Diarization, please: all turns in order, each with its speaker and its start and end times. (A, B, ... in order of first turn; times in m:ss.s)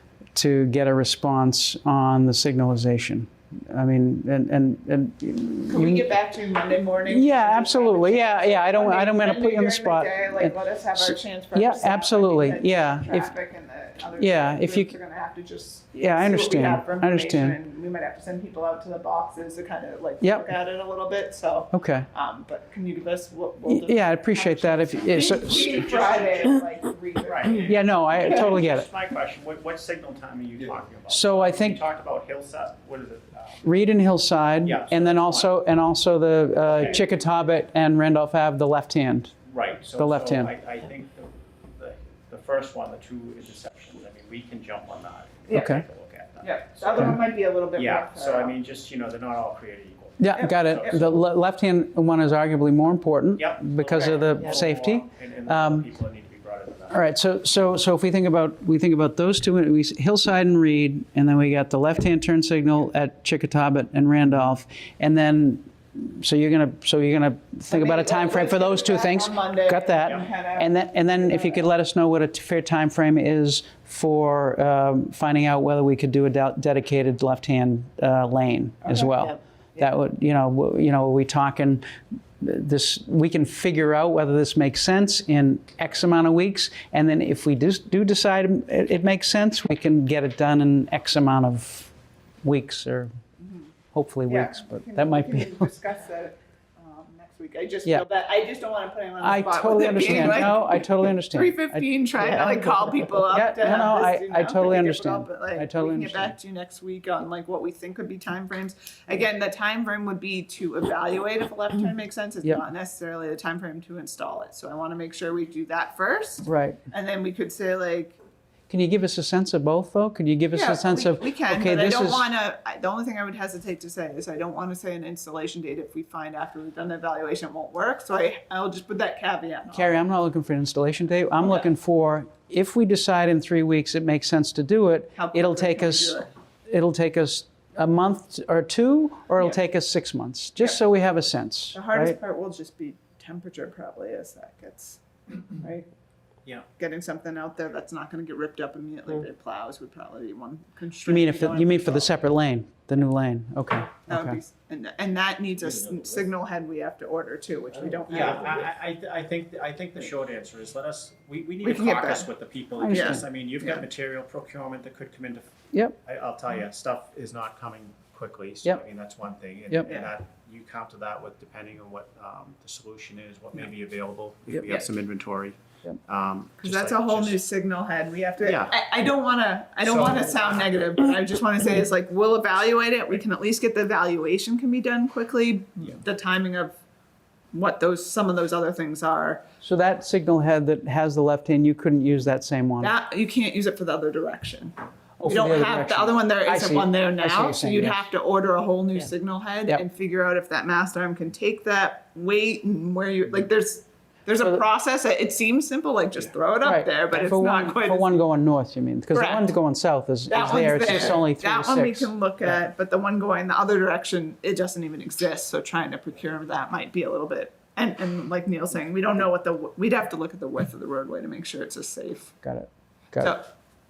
0:00.3-0:06.1 A
0:05.7-0:27.7 B
0:07.1-0:13.3 A
0:14.2-0:14.9 A
0:16.0-0:17.6 A
0:21.7-0:22.1 A
0:23.7-0:25.8 A
0:25.9-0:26.1 C
0:27.2-0:33.7 C
0:27.6-0:28.9 A
0:31.1-0:31.8 A
0:33.6-0:39.3 A
0:34.6-0:35.5 C
0:36.6-0:37.1 C
0:39.5-0:47.2 C
0:40.0-0:40.5 A
0:45.5-0:45.8 B
0:45.5-0:45.8 A
0:46.4-0:48.6 B
0:47.8-0:51.1 C
0:50.2-0:55.9 A
0:50.4-0:50.8 B
0:53.4-0:57.1 C
0:56.9-1:21.8 A
1:07.7-1:11.6 B
1:18.8-1:19.9 B
1:22.4-1:31.9 A
1:32.4-1:33.1 A
1:33.4-1:33.7 B
1:33.9-1:35.7 A
1:34.3-1:58.2 B
1:39.2-1:46.4 A
1:56.4-1:56.8 A
1:58.7-2:02.3 A
2:00.5-2:10.0 B
2:09.7-2:22.2 A
2:11.4-2:11.7 B
2:15.1-2:16.3 B
2:21.7-2:25.9 B
2:26.8-2:32.2 B
2:31.1-2:34.4 A
2:34.1-2:38.7 B
2:38.1-2:45.5 C
2:41.6-2:42.3 B
2:42.8-2:43.2 A
2:42.9-2:43.8 B
2:46.0-2:57.4 C
2:56.6-3:06.8 B
2:58.4-2:58.7 C
2:59.9-3:00.6 C
3:07.5-3:09.4 B
3:09.6-3:12.9 A
3:12.8-3:28.2 B
3:15.2-3:18.1 A
3:26.6-3:32.1 A
3:29.1-3:29.5 B
3:30.3-3:42.4 B
3:42.4-3:43.4 A
3:43.2-3:43.5 B